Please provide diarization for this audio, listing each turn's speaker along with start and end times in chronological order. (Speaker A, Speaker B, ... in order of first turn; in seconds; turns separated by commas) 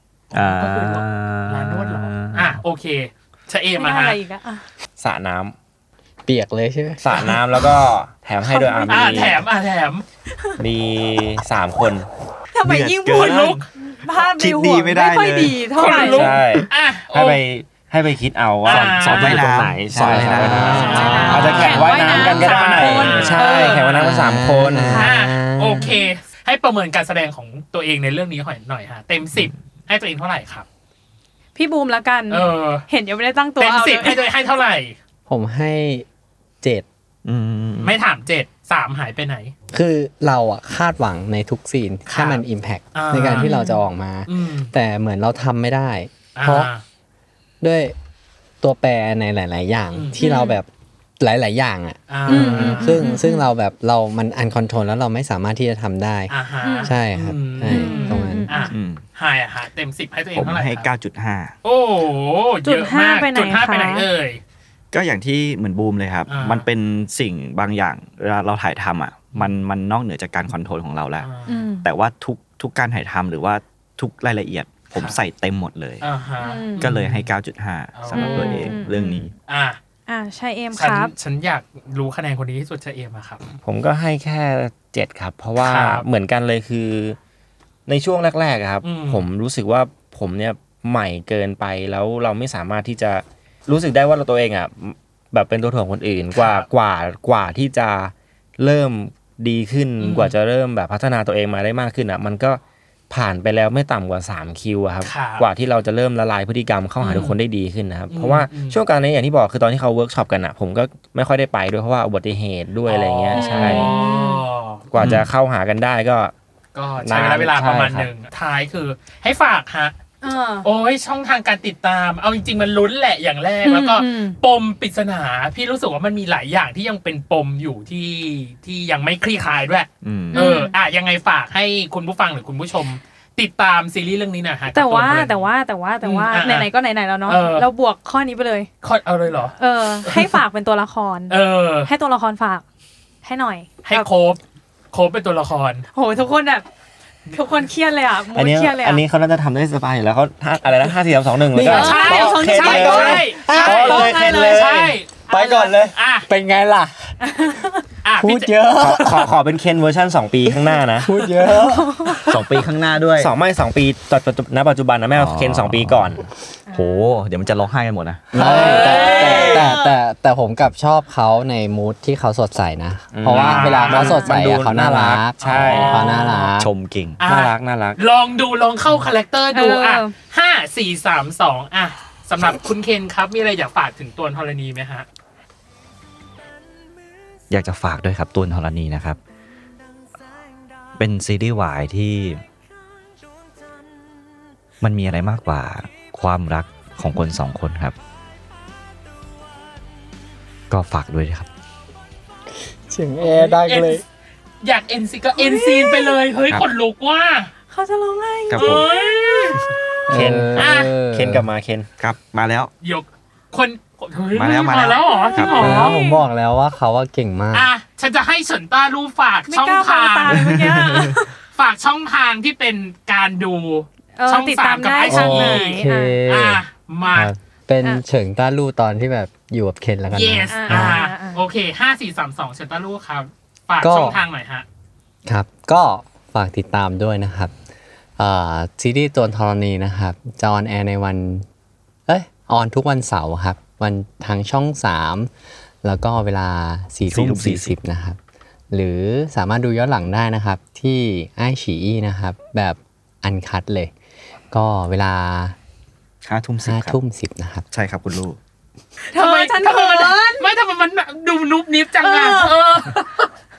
Speaker A: 0.3-4.2, Speaker B: 0.3-2.6, Speaker C: 3.8-4.6, Speaker D: 5.0-5.5, Speaker E: 6.2-7.3, Speaker D: 7.0-9.4, Speaker C: 8.4-9.4, Speaker A: 8.9-10.0, Speaker D: 10.6-12.1, Speaker C: 12.5-16.3, Speaker B: 12.6-15.9, Speaker A: 13.1-13.6, Speaker A: 15.8-17.4, Speaker D: 15.9-25.0, Speaker A: 18.6-19.4, Speaker B: 18.7-21.6, Speaker E: 20.3-21.5, Speaker A: 20.4-24.3, Speaker C: 20.7-23.9, Speaker E: 23.9-25.9, Speaker A: 24.9-30.6, Speaker C: 31.6-34.2, Speaker A: 32.3-32.9, Speaker A: 33.6-35.0, Speaker E: 35.3-36.0, Speaker B: 37.2-38.0, Speaker A: 37.8-39.5, Speaker E: 39.7-46.7, Speaker A: 42.1-43.6, Speaker C: 43.3-43.8, Speaker A: 44.3-44.7, Speaker A: 46.4-46.8, Speaker E: 47.6-47.9, Speaker E: 48.6-50.7, Speaker A: 49.9-50.2, Speaker C: 50.2-50.6, Speaker E: 51.2-58.5, Speaker A: 52.1-52.9, Speaker C: 52.3-53.5, Speaker A: 56.3-60.9, Speaker C: 56.6-56.9, Speaker C: 57.7-58.7, Speaker B: 58.7-59.0, Speaker B: 60.3-61.5, Speaker A: 61.6-64.4, Speaker C: 62.6-64.1, Speaker B: 64.9-71.3, Speaker A: 66.3-66.7, Speaker A: 71.2-71.5, Speaker C: 71.5-71.9, Speaker B: 71.8-76.0, Speaker A: 76.0-77.3, Speaker C: 76.4-76.9, Speaker B: 76.8-79.3, Speaker A: 78.0-79.8, Speaker C: 78.1-79.2, Speaker C: 80.1-81.1, Speaker A: 80.7-83.4, Speaker D: 83.6-87.2, Speaker A: 85.6-86.0, Speaker D: 87.9-113.9, Speaker A: 88.8-89.2, Speaker A: 96.3-96.7, Speaker A: 100.0-100.3, Speaker A: 105.0-105.5, Speaker A: 107.0-107.4, Speaker A: 108.1-108.8, Speaker A: 112.8-114.9, Speaker C: 113.3-114.4, Speaker D: 114.9-116.3, Speaker B: 115.0-115.3, Speaker A: 116.7-119.9, Speaker D: 117.0-118.1, Speaker C: 120.2-120.7, Speaker A: 120.6-135.5, Speaker C: 123.6-124.4, Speaker B: 130.0-130.4, Speaker C: 130.3-130.7, Speaker C: 134.7-138.7, Speaker A: 136.0-136.7, Speaker A: 137.2-137.7, Speaker A: 138.8-140.4, Speaker C: 139.5-142.6, Speaker A: 141.3-141.9, Speaker C: 143.2-144.1, Speaker A: 143.8-144.4, Speaker A: 144.9-145.8, Speaker C: 145.9-146.7, Speaker C: 147.3-149.0, Speaker D: 148.3-154.9, Speaker E: 151.5-154.6, Speaker A: 151.6-156.3, Speaker C: 151.7-154.6, Speaker E: 155.3-157.6, Speaker C: 157.2-157.7, Speaker A: 158.0-158.5, Speaker E: 158.2-159.3, Speaker D: 158.8-161.2, Speaker E: 160.4-162.5, Speaker C: 161.5-162.2, Speaker B: 162.3-163.3, Speaker D: 163.2-166.2, Speaker B: 165.1-166.2, Speaker C: 166.7-167.1, Speaker B: 166.7-168.3, Speaker E: 168.3-176.7, Speaker A: 168.4-169.7, Speaker C: 168.4-169.9, Speaker D: 173.1-176.1, Speaker A: 173.3-174.2, Speaker C: 174.0-174.3, Speaker A: 175.4-176.5, Speaker B: 176.6-177.2, Speaker A: 177.2-185.1, Speaker D: 177.2-178.0, Speaker C: 179.5-180.1, Speaker B: 187.5-189.2, Speaker B: 190.9-192.4, Speaker B: 194.8-197.9, Speaker B: 200.7-201.5, Speaker E: 202.8-204.0, Speaker A: 203.2-204.0, Speaker A: 204.6-207.5, Speaker C: 205.3-206.2, Speaker C: 207.7-209.6, Speaker B: 208.5-208.8, Speaker A: 208.6-209.6, Speaker E: 210.1-211.5, Speaker D: 210.1-211.9, Speaker A: 210.6-210.9, Speaker B: 212.0-212.7, Speaker A: 212.8-215.9, Speaker B: 214.3-215.8, Speaker C: 214.5-216.2, Speaker E: 215.6-217.7, Speaker A: 217.5-220.5, Speaker C: 219.5-221.3, Speaker B: 220.3-221.2, Speaker A: 221.5-227.3, Speaker C: 224.2-226.2, Speaker E: 225.1-226.6, Speaker E: 227.1-231.0, Speaker A: 230.1-234.7, Speaker C: 230.5-231.4, Speaker E: 233.8-234.2, Speaker E: 235.2-237.5, Speaker E: 238.2-241.4, Speaker E: 242.1-245.3, Speaker E: 245.8-248.2, Speaker B: 247.1-247.7, Speaker E: 248.7-253.9, Speaker E: 254.5-255.6, Speaker B: 256.2-257.0, Speaker E: 256.6-257.6, Speaker B: 257.7-258.4, Speaker C: 259.1-260.5, Speaker A: 259.1-263.3, Speaker C: 262.0-262.5